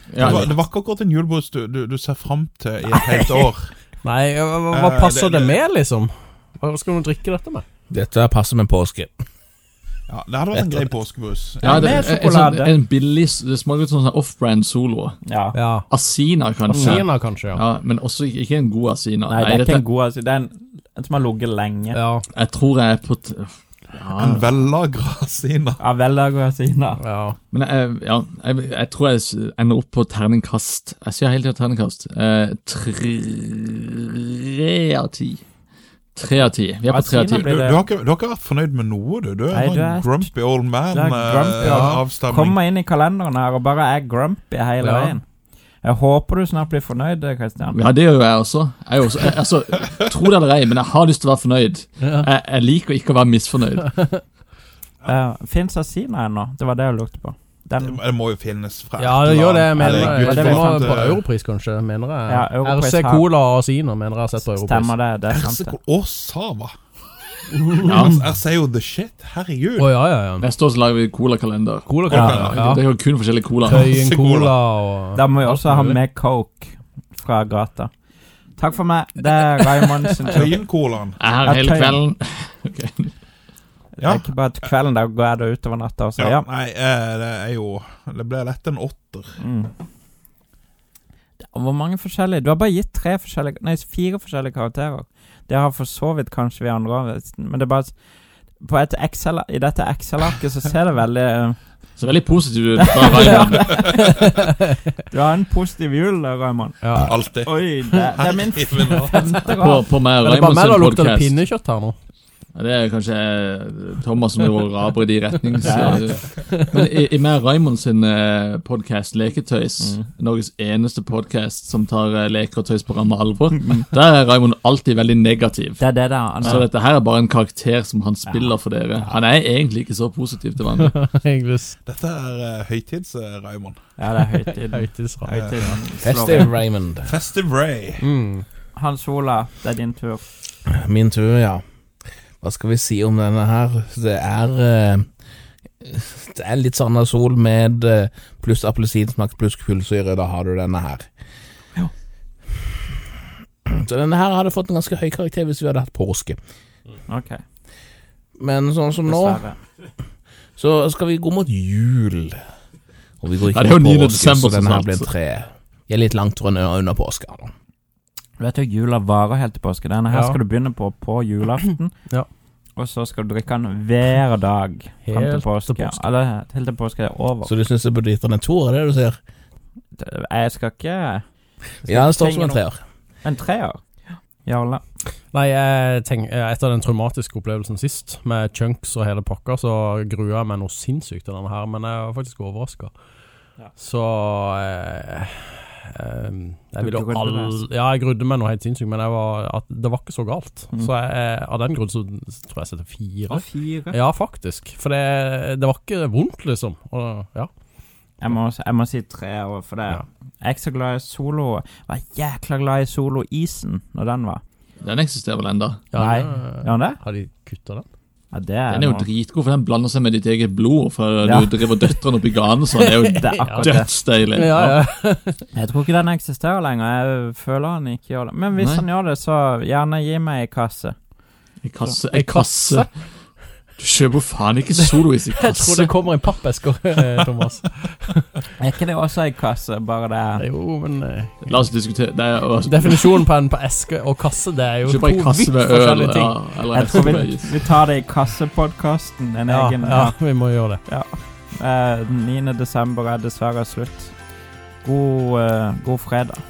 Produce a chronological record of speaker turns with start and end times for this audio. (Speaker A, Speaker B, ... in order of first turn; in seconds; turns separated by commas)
Speaker A: 0.1-0.6, Speaker B: 0.1-3.8, Speaker C: 4.0-7.6, Speaker B: 4.7-5.6, Speaker D: 7.9-9.1, Speaker B: 10.1-12.0, Speaker E: 11.6-12.7, Speaker A: 11.6-15.2, Speaker E: 15.2-15.6, Speaker C: 15.5-15.8, Speaker A: 15.9-19.9, Speaker C: 16.7-17.6, Speaker E: 19.3-22.0, Speaker C: 21.9-22.2, Speaker A: 22.3-24.5, Speaker B: 24.1-25.8, Speaker E: 25.8-27.0, Speaker C: 27.0-27.4, Speaker A: 27.5-35.4, Speaker A: 36.1-37.5, Speaker E: 36.9-37.8, Speaker B: 37.4-42.6, Speaker E: 39.5-40.3, Speaker E: 40.9-45.2, Speaker C: 41.6-42.0, Speaker C: 44.8-45.2, Speaker E: 45.8-47.8, Speaker A: 47.7-54.0, Speaker C: 52.0-52.3, Speaker C: 53.9-54.2, Speaker E: 55.1-58.0, Speaker B: 57.8-61.2, Speaker C: 59.0-64.9, Speaker E: 59.8-61.0, Speaker E: 62.3-63.3, Speaker E: 64.4-65.8, Speaker B: 65.3-66.7, Speaker C: 67.6-67.8, Speaker A: 67.8-68.2, Speaker B: 67.8-70.0, Speaker C: 69.8-70.5, Speaker A: 70.4-73.9, Speaker C: 71.9-72.8, Speaker B: 72.0-72.7, Speaker E: 72.1-72.5, Speaker B: 73.7-74.5, Speaker C: 73.7-76.0, Speaker E: 75.1-77.9, Speaker E: 78.6-80.6, Speaker B: 80.3-81.2, Speaker A: 81.2-83.1, Speaker E: 81.4-82.0, Speaker E: 84.0-86.4, Speaker B: 84.0-84.3, Speaker B: 86.2-89.4, Speaker E: 89.4-89.7, Speaker E: 91.4-98.0, Speaker E: 98.6-101.6, Speaker A: 102.0-103.8, Speaker E: 102.8-104.4, Speaker E: 105.1-109.9, Speaker C: 106.8-107.1, Speaker B: 107.0-107.5, Speaker B: 108.1-109.1, Speaker C: 108.9-109.4, Speaker A: 109.5-111.4, Speaker C: 110.2-111.9, Speaker A: 112.5-131.0, Speaker E: 115.6-116.0, Speaker C: 116.4-116.7, Speaker E: 125.8-126.7, Speaker C: 130.8-131.8, Speaker B: 131.8-133.8, Speaker E: 134.0-136.5, Speaker C: 134.7-135.3, Speaker B: 135.3-135.8, Speaker D: 136.0-137.1, Speaker B: 137.0-138.0, Speaker C: 138.0-138.4, Speaker E: 138.7-140.2, Speaker D: 140.7-141.6, Speaker D: 142.4-145.1, Speaker D: 145.8-151.1, Speaker D: 153.7-156.4, Speaker E: 157.1-157.4, Speaker D: 158.4-159.5, Speaker E: 159.1-159.6, Speaker D: 160.6-162.4, Speaker D: 163.2-167.5, Speaker A: 163.5-165.1, Speaker E: 168.4-171.9, Speaker C: 170.1-170.4, Speaker E: 172.8-177.5, Speaker C: 175.0-176.1, Speaker D: 177.4-179.2, Speaker E: 180.0-181.2, Speaker E: 181.8-182.6, Speaker D: 181.9-182.8, Speaker E: 183.2-184.8, Speaker C: 185.3-192.9, Speaker C: 193.8-207.5, Speaker E: 196.8-197.6, Speaker E: 203.3-204.0, Speaker E: 208.2-214.4, Speaker A: 214.8-215.8, Speaker C: 215.9-217.8, Speaker E: 215.9-217.0, Speaker E: 218.3-219.1, Speaker A: 218.7-224.7, Speaker E: 221.2-221.7, Speaker C: 222.8-225.5, Speaker E: 223.0-224.7, Speaker E: 225.5-231.0, Speaker A: 228.6-228.8, Speaker A: 231.6-233.1, Speaker C: 232.0-232.9, Speaker A: 233.8-235.9, Speaker C: 234.7-238.3, Speaker E: 238.6-240.4, Speaker C: 240.4-241.5, Speaker A: 241.4-243.3, Speaker C: 242.6-247.2, Speaker A: 244.8-247.6, Speaker E: 246.7-254.2, Speaker C: 249.5-250.8, Speaker E: 254.8-256.4